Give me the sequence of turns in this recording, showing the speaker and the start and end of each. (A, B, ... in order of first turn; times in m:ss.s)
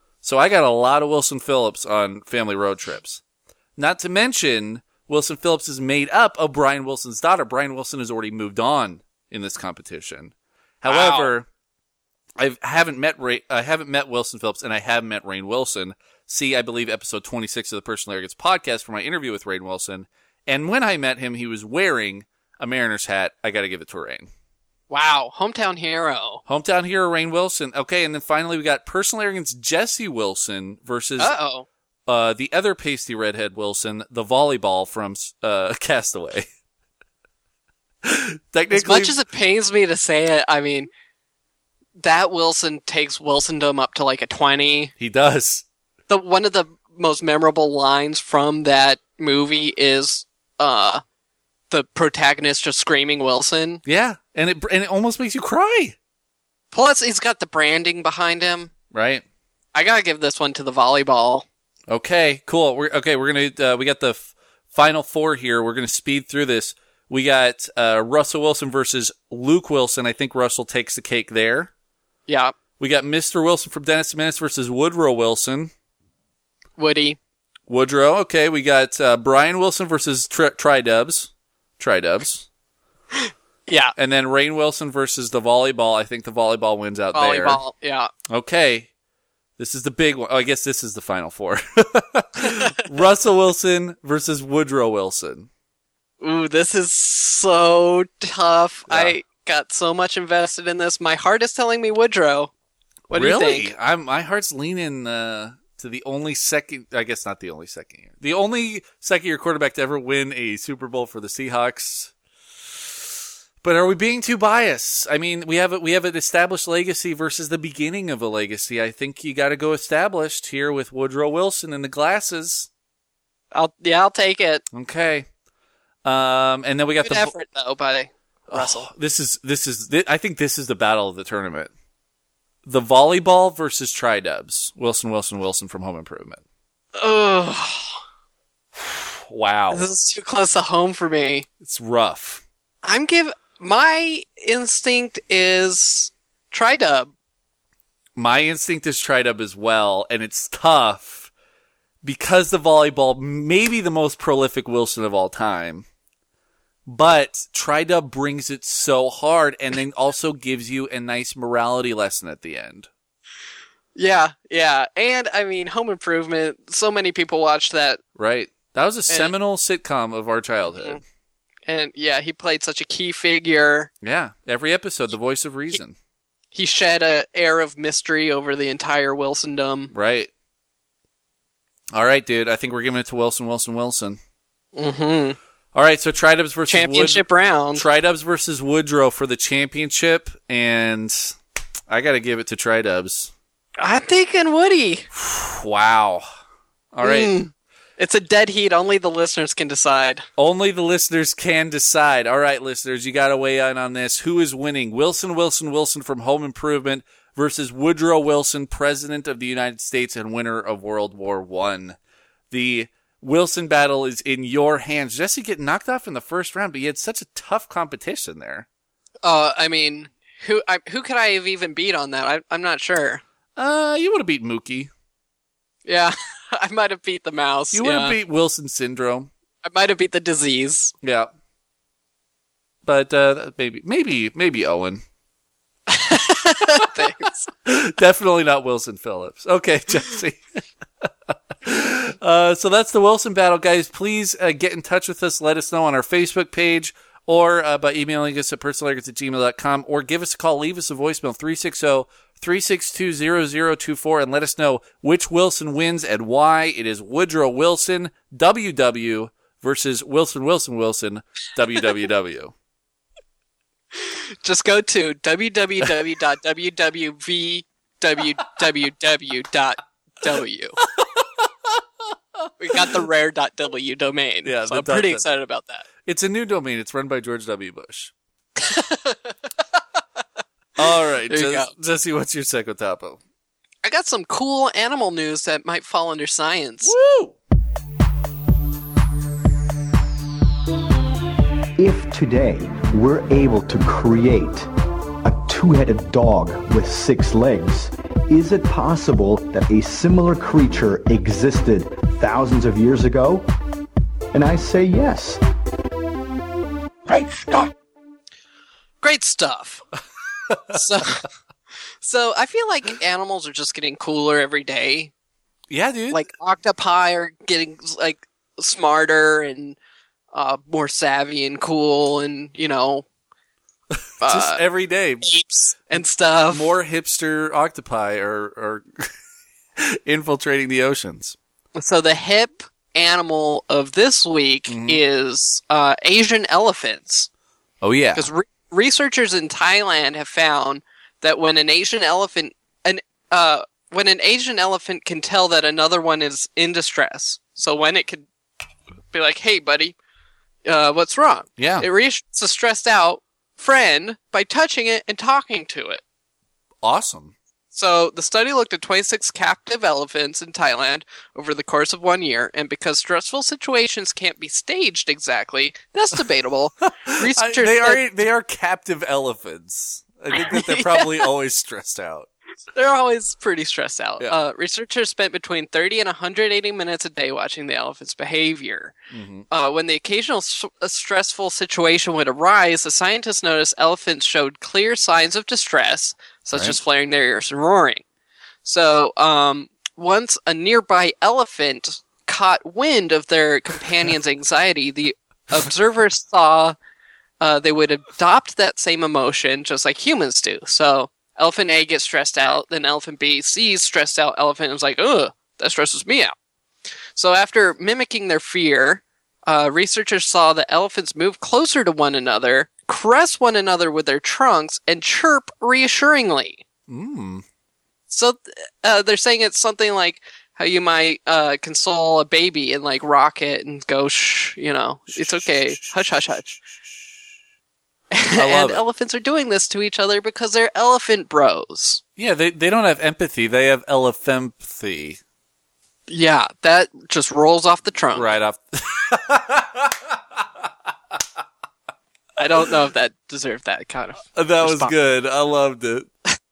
0:00.2-0:03.2 A
0:03.8-0:11.5 A
0:10.9-0:11.3 B
0:12.4-0:24.3 A
0:24.9-0:26.4 B
0:26.5-0:31.3 A
0:31.2-0:31.7 B
0:32.1-0:36.5 A
0:38.0-0:39.2 A
0:38.7-0:40.9 B
0:42.0-0:44.9 B
0:45.0-0:45.6 A
0:46.1-0:51.0 B
0:51.7-0:53.8 B
0:53.8-0:56.0 A
0:56.7-0:58.7 B
0:58.9-0:59.2 A
0:59.7-1:01.4 B
1:01.9-1:11.7 A
1:12.3-1:12.6 B
1:12.8-1:15.7 A
1:16.8-1:17.2 B
1:17.7-1:22.5 A
1:23.1-1:23.9 B
1:24.0-1:27.6 A
1:27.1-1:28.1 B
1:28.3-1:28.9 A
1:29.6-1:35.5 A
1:32.4-1:32.7 B
1:36.2-1:42.5 B
1:38.9-1:39.2 A
1:43.1-1:52.1 A
1:43.1-1:43.7 B
1:52.7-1:53.0 A
1:53.6-2:02.7 A
2:03.5-2:04.6 B
2:04.7-2:05.3 A
2:06.0-2:07.3 A
2:07.0-2:08.9 B
2:08.5-2:11.7 A
2:12.6-2:16.4 A
2:17.0-2:18.0 B
2:18.7-2:19.9 A
2:19.7-2:21.4 B
2:21.6-2:22.4 A
2:22.8-2:27.1 B
2:28.2-2:31.3 A
2:32.0-2:35.8 A
2:36.8-2:42.9 A
2:44.0-2:48.0 B
2:48.2-2:51.0 A
2:51.7-2:53.9 B
2:54.0-2:56.0 A
2:56.5-2:59.9 B
2:59.9-3:00.3 A
3:01.9-3:04.2 A
3:04.7-3:05.4 B
3:05.7-3:11.4 A
3:06.7-3:07.8 B
3:11.9-3:13.3 A
3:13.8-3:15.1 B
3:15.1-3:16.2 A
3:16.9-3:17.3 A
3:17.0-3:20.2 B
3:20.4-3:32.0 A
3:32.5-3:38.7 A
3:39.2-3:43.2 B
3:43.6-3:44.9 A
3:45.8-3:48.2 B
3:47.7-3:49.3 A
3:49.6-3:50.9 B
3:51.0-3:51.3 A
3:52.8-3:55.0 A
3:55.9-3:57.5 B
3:56.7-3:57.1 A
3:57.6-4:00.4 A
4:01.0-4:22.5 A
4:23.9-4:30.8 B
4:30.9-4:31.8 A
4:32.6-4:35.8 B
4:32.7-4:33.0 A
4:34.4-4:35.2 A
4:36.0-4:38.1 A
4:38.6-4:39.4 B
4:40.8-4:43.2 A
4:41.3-4:41.7 B
4:43.8-4:46.9 B
4:46.8-4:47.4 A
4:51.8-4:54.7 C
4:55.2-5:03.5 C
5:04.3-5:05.4 C
5:07.0-5:07.7 C
5:09.0-5:09.8 B
5:10.5-5:10.8 A
5:10.7-5:11.2 B
5:12.0-5:15.1 B
5:15.7-5:16.2 A
5:16.1-5:19.8 B
5:20.3-5:23.0 B
5:23.9-5:25.3 A
5:24.2-5:24.6 B
5:25.2-5:26.7 B
5:25.9-5:28.8 A
5:29.8-5:31.4 A
5:31.8-5:37.3 B
5:34.7-5:35.0 A
5:37.8-5:38.3 A
5:38.1-5:48.3 B
5:49.1-5:50.0 B
5:50.6-5:56.0 B
5:51.6-5:51.9 A
5:56.8-5:57.3 A
5:57.7-6:08.0 B
6:07.0-6:12.3 A
6:10.5-6:11.2 B
6:12.7-6:19.0 B
6:19.1-6:19.5 A
6:19.5-6:28.0 B
6:26.5-6:26.8 A
6:28.6-6:36.7 B
6:37.4-6:46.3 B
6:47.2-6:56.6 B
6:56.9-6:57.4 A
6:58.1-7:06.6 B
7:05.2-7:05.7 A
7:08.1-7:12.0 B
7:08.3-7:08.8 A
7:12.2-7:15.2 A
7:16.1-7:18.3 B
7:18.1-7:20.4 A
7:22.4-7:24.9 B
7:24.3-7:26.1 A